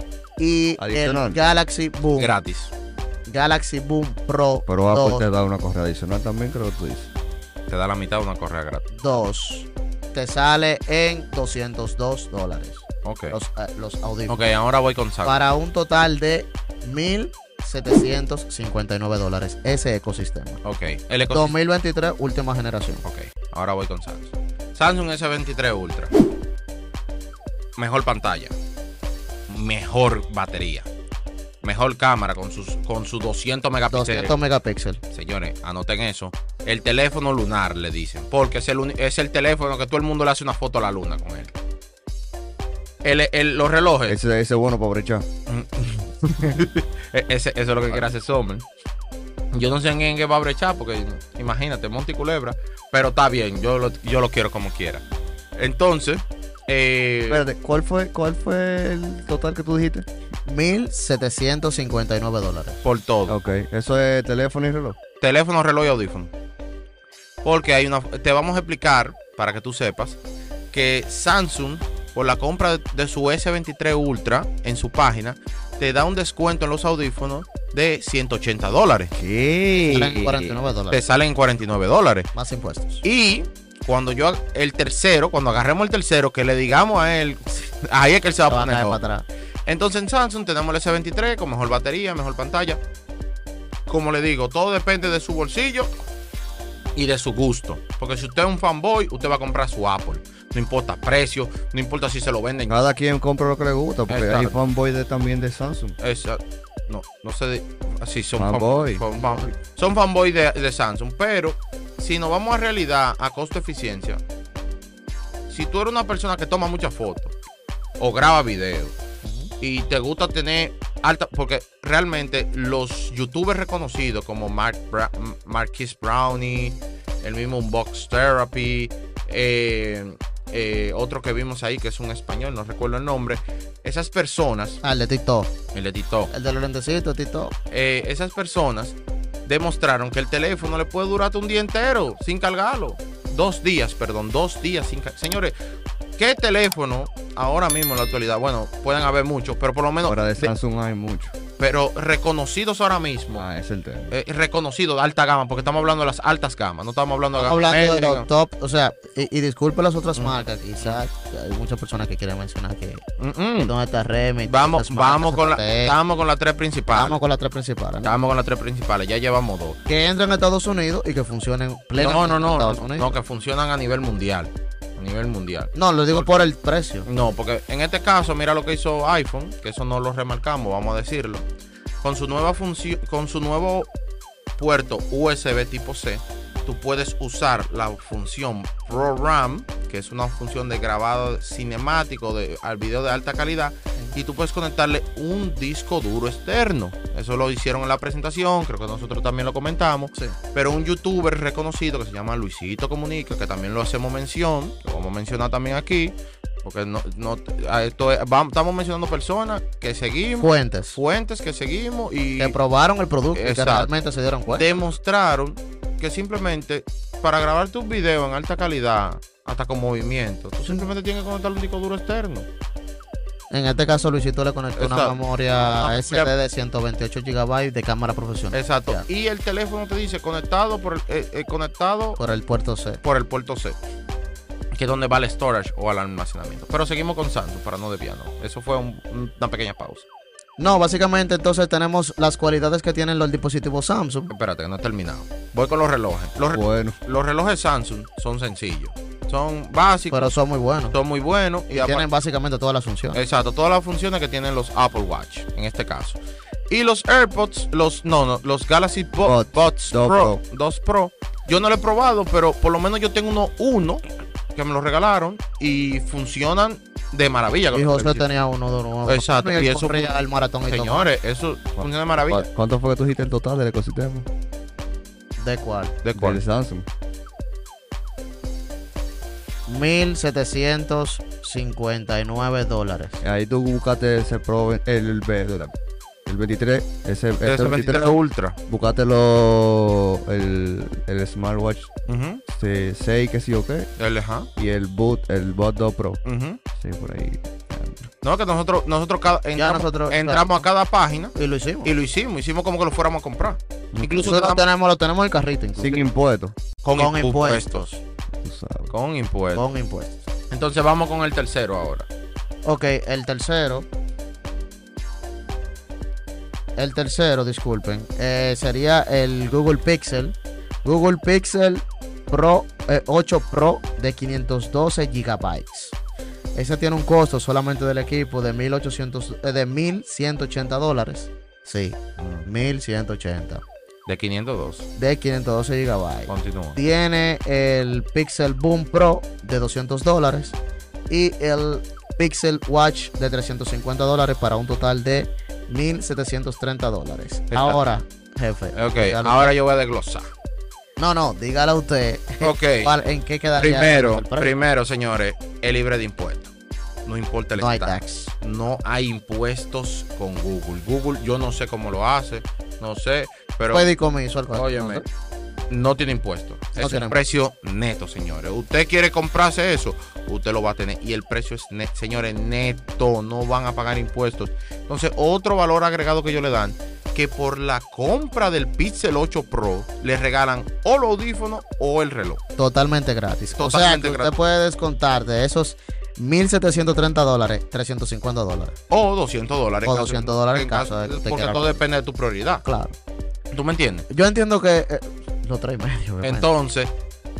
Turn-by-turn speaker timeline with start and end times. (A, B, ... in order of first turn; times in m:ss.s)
0:00.4-0:02.3 A
0:00.8-0:01.4 B
0:02.2-0:02.7 C
0:03.3-0:05.2 A
0:04.7-0:07.1 B
0:07.7-0:08.8 C
0:08.9-0:14.4 A
0:13.0-0:13.4 C
0:14.3-0:15.4 C
0:15.2-0:20.6 A
0:20.6-0:21.5 C
0:21.3-0:23.0 A
0:23.0-0:26.1 C
0:27.8-0:28.5 C
0:29.5-0:30.9 C
0:31.6-0:34.3 C
0:33.9-0:35.0 A
0:35.1-0:41.5 C
0:43.0-0:44.2 C
0:44.1-0:45.2 B
0:45.5-0:48.6 C
0:49.5-0:55.0 C
0:55.6-0:57.4 C
0:57.3-1:00.0 B
1:00.4-1:02.8 A
1:02.8-1:03.4 C
1:03.3-1:05.0 B
1:05.2-1:06.3 C
1:07.4-1:10.2 C
1:10.7-1:19.1 C
1:19.1-1:20.3 B
1:19.8-1:21.0 A
1:19.9-1:22.3 C
1:22.3-1:23.0 A
1:23.0-1:29.0 C
1:28.5-1:29.2 A
1:29.6-1:32.8 C
1:33.9-1:35.9 C
1:37.0-1:42.8 C
1:42.7-1:46.0 B
1:44.1-1:44.6 C
1:46.0-1:54.2 C
1:48.4-1:49.0 B
1:49.1-1:49.5 A
1:55.5-1:57.3 C
1:58.0-1:58.9 C
1:59.2-1:59.5 A
1:59.6-2:14.8 C
2:14.8-2:15.5 A
2:15.7-2:16.3 C
2:16.3-2:17.5 A
2:17.7-2:25.5 C
2:26.2-2:30.5 C
2:30.0-2:31.3 B
2:31.6-2:33.5 C
2:33.4-2:34.1 B
2:34.1-2:38.3 C
2:37.4-2:43.0 A
2:40.2-2:41.0 C
2:43.2-2:43.7 C
2:43.6-2:45.9 A
2:44.4-2:47.2 C
2:46.9-2:48.1 A
2:48.0-2:49.8 C
2:49.9-2:53.1 A
2:52.0-2:56.3 C
2:55.7-2:57.1 A
2:57.0-3:01.4 C
3:02.0-3:03.9 C
3:04.6-3:32.6 C
3:30.4-3:31.0 A
3:32.4-3:34.7 A
3:33.3-3:33.9 C
3:34.5-3:42.5 C
3:43.5-3:49.0 A
3:44.8-3:46.3 C
3:48.5-3:52.2 C
3:52.2-3:53.0 A
3:53.0-3:53.8 C
3:54.7-4:00.0 C
4:00.6-4:04.3 A
4:04.3-4:10.3 C
4:06.5-4:07.0 B
4:10.1-4:11.0 A
4:10.9-4:12.0 C
4:11.7-4:13.2 A
4:13.1-4:16.2 C
4:16.7-4:24.0 C
4:19.2-4:20.4 B
4:24.5-4:28.2 C
4:27.7-4:31.1 A
4:29.1-4:30.1 C
4:30.7-4:32.4 C
4:31.8-4:34.3 B
4:35.4-4:36.0 A
4:36.0-4:36.4 C
4:36.1-4:36.9 B
4:39.7-4:43.2 A
4:43.2-4:45.7 B
4:46.2-4:48.1 B
4:47.4-4:48.6 C
4:48.7-4:51.9 B
4:52.1-4:52.4 C
4:52.5-4:53.9 B
4:54.0-4:54.5 C
4:54.6-4:56.2 B
4:56.2-4:56.6 C
4:56.8-4:58.1 B
4:58.2-5:01.3 C
4:59.6-5:00.6 A
5:01.3-5:01.9 A
5:01.8-5:04.6 C
5:03.9-5:04.3 B
5:04.2-5:06.0 A
5:05.8-5:06.5 B
5:06.8-5:07.9 C
5:07.0-5:08.0 A
5:08.4-5:08.9 B
5:08.9-5:09.6 C
5:09.5-5:10.2 A
5:10.5-5:12.1 C
5:12.6-5:13.9 A
5:16.8-5:26.0 A
5:26.5-5:33.6 A
5:32.2-5:32.4 C
5:34.0-5:34.9 C
5:35.0-5:40.6 A
5:36.3-5:36.8 C
5:41.1-5:49.5 A
5:47.5-5:47.8 C
5:48.7-5:50.3 C
5:51.0-5:54.5 A
5:52.4-5:52.9 C
5:53.6-5:56.5 C
5:57.0-6:03.9 C
5:57.6-5:58.3 A
6:03.7-6:05.0 A
6:04.5-6:05.0 C
6:05.7-6:22.4 C
6:06.8-6:07.2 A
6:22.6-6:28.8 A
6:23.6-6:24.3 C
6:28.9-6:32.6 C
6:29.8-6:31.8 A
6:32.6-6:32.9 A
6:33.5-6:34.1 C
6:34.1-6:36.5 A
6:36.2-6:36.9 C